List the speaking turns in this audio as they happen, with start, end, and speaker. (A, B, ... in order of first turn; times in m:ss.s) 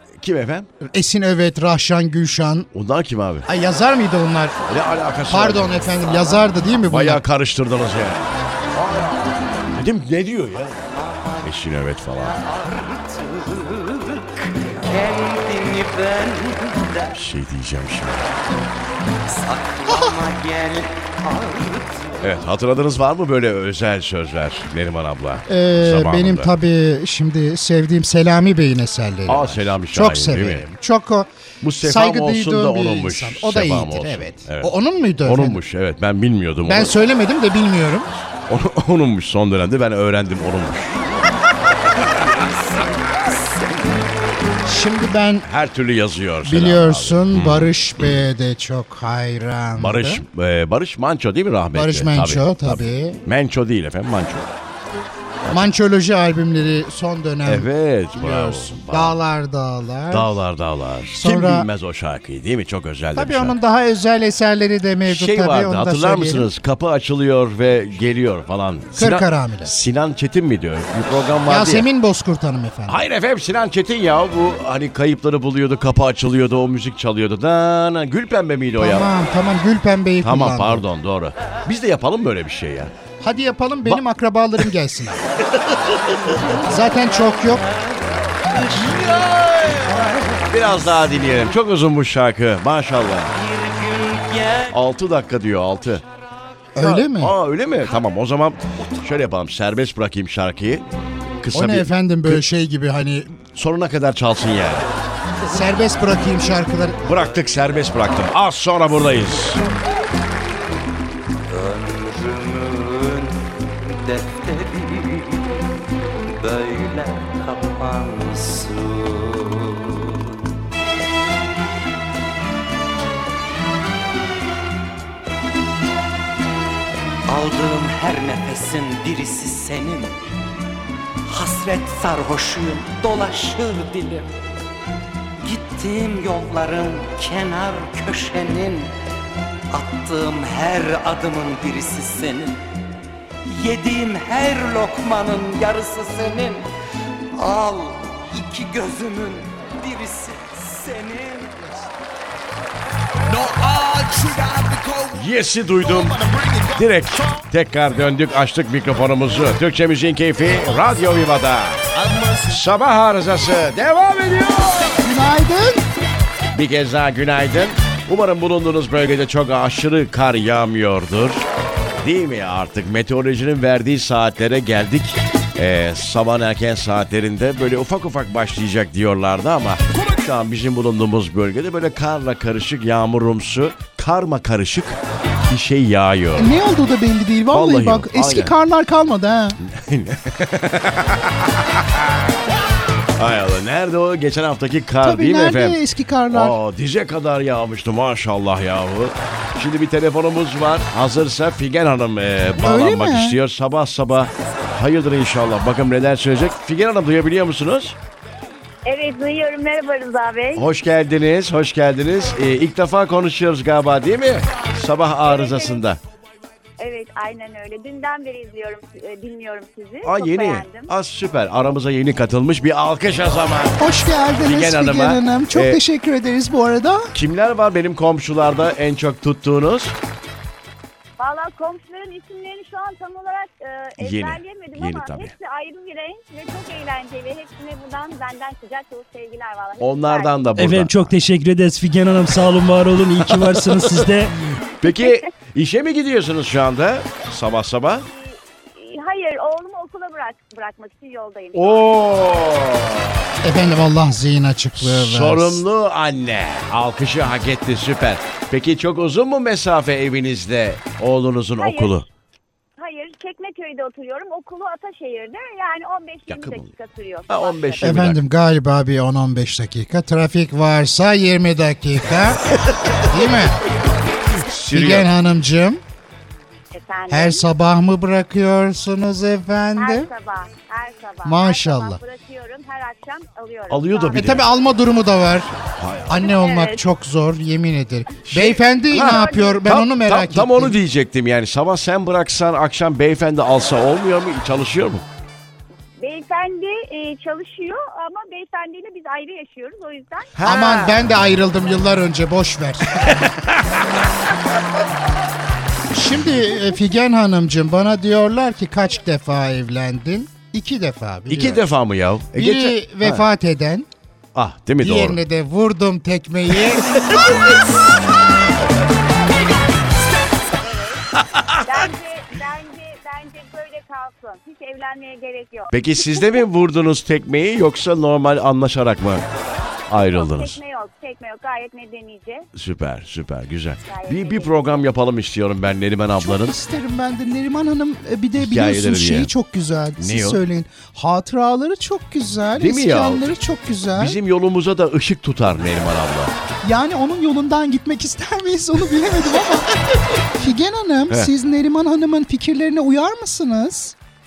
0:00.2-0:00.7 A
0:00.8-0:02.7 B
0:02.7-0:03.5 A
0:03.5-0:04.6 B
0:04.7-0:05.9 A
0:05.3-0:07.2 B
0:06.0-0:06.6 C
0:06.8-0:10.8 A
0:10.8-0:17.2 C
0:11.4-0:12.4 A
0:17.1-0:18.4 A
0:19.2-0:22.4 C
0:22.2-0:26.5 A
0:25.5-0:35.6 B
0:29.3-0:30.7 A
0:31.6-0:37.0 A
0:36.6-0:38.1 B
0:38.5-0:41.0 A
0:40.9-0:41.3 C
0:41.9-0:44.1 C
0:44.6-0:45.5 B
0:45.4-0:48.2 A
0:46.4-0:50.2 B
0:49.8-0:54.5 A
0:51.7-0:53.2 B
0:55.4-0:55.7 A
0:55.5-1:00.3 B
0:57.4-0:59.2 A
1:00.1-1:03.6 A
1:01.1-1:01.7 B
1:03.1-1:06.5 B
1:05.0-1:11.9 A
1:09.0-1:09.7 B
1:11.4-1:13.0 B
1:12.9-1:19.1 A
1:18.8-1:20.8 B
1:20.2-1:22.9 A
1:23.2-1:25.2 B
1:25.4-1:26.0 A
1:26.0-1:31.5 C
1:26.7-1:27.6 B
1:28.7-1:33.3 A
1:33.3-1:34.8 C
1:34.7-1:36.0 A
1:36.7-1:37.4 B
1:36.8-1:40.8 A
1:38.8-1:39.1 C
1:41.4-1:42.4 A
1:41.5-1:43.3 B
1:43.5-1:44.9 A
1:45.5-1:47.0 B
1:47.0-1:49.6 A
1:51.5-1:53.3 C
1:53.9-1:55.4 C
1:56.4-2:00.2 C
2:07.3-2:10.2 C
2:11.2-2:14.3 C
2:15.4-2:18.9 C
2:19.7-2:22.6 C
2:23.4-2:26.7 C
2:27.3-2:31.9 C
2:33.3-2:35.2 C
2:35.1-2:45.0 A
2:36.2-2:36.8 C
2:42.1-2:42.4 C
2:45.0-2:45.8 D
2:46.5-2:51.4 A
2:52.0-3:06.6 A
3:06.4-3:09.6 D
3:07.5-3:08.5 A
3:09.6-3:12.2 A
3:13.2-3:15.8 A
3:15.0-3:16.6 D
3:16.3-3:28.0 A
3:22.6-3:23.4 D
3:28.8-3:30.7 E
3:30.5-3:36.0 A
3:35.2-3:35.8 E
3:36.8-3:40.9 E
3:40.0-3:43.8 A
3:43.8-3:47.1 D
3:44.4-3:45.8 A
3:47.1-3:49.9 A
3:51.2-4:00.5 E
3:54.0-3:55.3 A
3:59.8-4:01.1 A
4:00.6-4:04.4 F
4:03.3-4:04.0 A
4:04.7-4:08.0 A
4:04.8-4:05.2 E
4:08.1-4:12.0 E
4:11.5-4:13.4 A
4:13.4-4:15.6 B
4:14.8-4:22.0 A
4:21.6-4:22.0 E
4:22.8-4:28.0 E
4:26.3-4:26.7 A
4:27.3-4:28.2 A
4:27.8-4:33.6 B
4:34.3-4:35.1 A
4:34.7-4:35.8 B
4:36.7-4:37.5 E
4:37.1-4:40.1 B
4:39.8-4:44.4 E
4:41.2-4:42.0 B
4:43.7-4:44.5 A
4:44.1-4:45.5 B
4:45.8-4:46.3 A
4:46.1-4:50.8 B
4:46.1-4:46.8 E
4:48.3-4:55.0 A
4:48.9-4:49.6 E
4:56.0-5:00.7 E
5:00.4-5:01.0 A
5:00.4-5:03.2 B
5:03.0-5:03.6 A
5:05.9-5:11.6 B
5:11.3-5:13.2 A
5:12.3-5:13.9 B
5:14.3-5:15.2 A
5:14.8-5:17.0 B
5:16.9-5:17.2 A
5:20.5-5:21.0 E
5:21.3-5:21.6 A
5:21.6-5:26.4 E
5:25.7-5:29.2 A
5:29.9-5:30.6 A
5:29.9-5:32.4 E
5:32.5-5:36.5 A
5:33.8-5:34.8 E
5:36.2-5:44.2 D
5:38.4-5:39.3 A
5:40.0-5:40.4 A
5:42.6-5:43.3 A
5:44.0-5:46.3 A
5:46.6-5:49.7 D
5:50.3-5:53.9 D